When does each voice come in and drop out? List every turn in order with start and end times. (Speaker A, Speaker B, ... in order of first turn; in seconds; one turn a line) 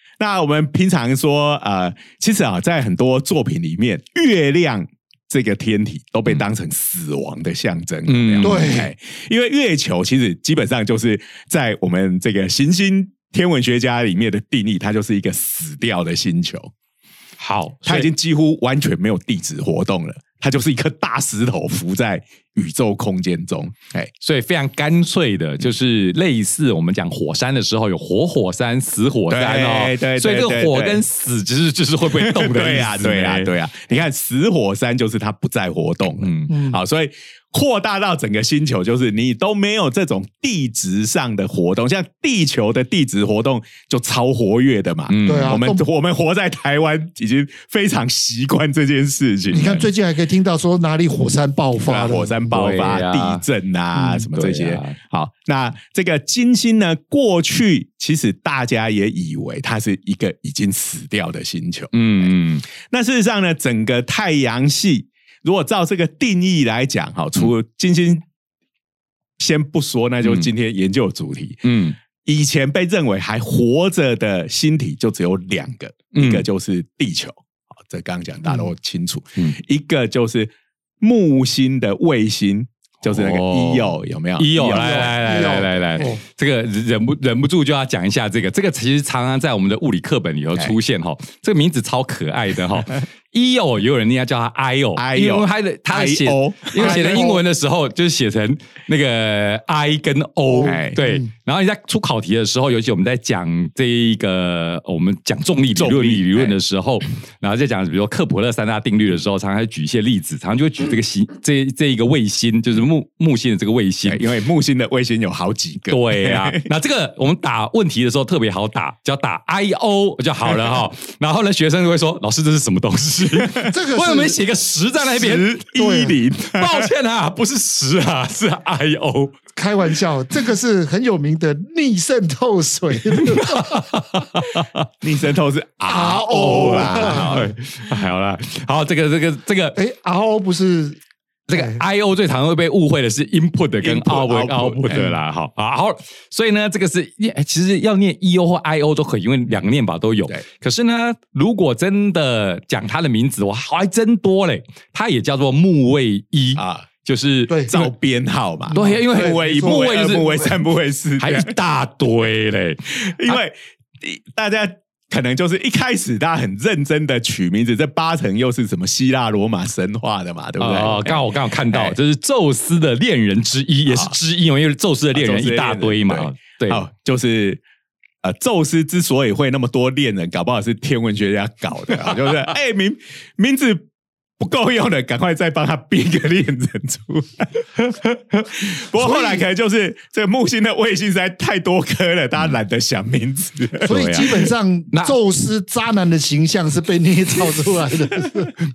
Speaker A: 0.2-16.7
Speaker B: 8.1-8.7
Speaker C: 8.4-8.9
Speaker B: 17.4-18.1
Speaker A: 17.8-24.1
Speaker B: 24.2-33.5
Speaker A: 29.3-31.0
Speaker A: 32.1-49.8
Speaker B: 36.2-36.5
Speaker C: 36.5-36.8
Speaker B: 45.1-45.6
Speaker C: 45.2-45.8
Speaker C: 49.5-52.5
Speaker A: 51.8-68.2
Speaker B: 52.5-53.4
Speaker B: 54.0-54.9
Speaker B: 61.9-62.6
Speaker A: 69.4-71.6
Speaker B: 71.6-72.0
Speaker A: 72.2-85.1
Speaker B: 76.1-76.4
Speaker B: 83.0-114.2
Speaker C: 84.7-86.2
Speaker A: 95.0-97.4
Speaker C: 96.8-97.4
Speaker C: 100.5-101.3
Speaker A: 100.6-101.0
Speaker A: 105.7-106.5
Speaker A: 114.0-116.7
Speaker B: 115.9-125.6
Speaker C: 123.6-124.4
Speaker A: 125.0-126.9
Speaker C: 125.8-126.1
Speaker B: 126.4-129.3
Speaker C: 129.6-133.9
Speaker B: 133.3-134.9
Speaker A: 135.0-137.5
Speaker C: 135.8-137.3
Speaker B: 136.3-139.8
Speaker C: 139.7-141.0
Speaker B: 141.5-157.9
Speaker C: 141.5-141.8
Speaker A: 143.8-145.1
Speaker A: 156.6-156.8
Speaker A: 157.7-161.5
Speaker C: 158.7-159.8
Speaker B: 158.7-160.5
Speaker B: 161.2-163.3
Speaker A: 163.0-172.0
Speaker B: 170.6-176.8
Speaker A: 173.9-174.1
Speaker A: 175.1-177.6
Speaker A: 178.2-183.9
Speaker A: 184.4-187.7
Speaker B: 188.1-188.5
Speaker A: 188.5-194.2
Speaker C: 189.0-189.4
Speaker C: 193.8-198.6
Speaker B: 193.9-195.1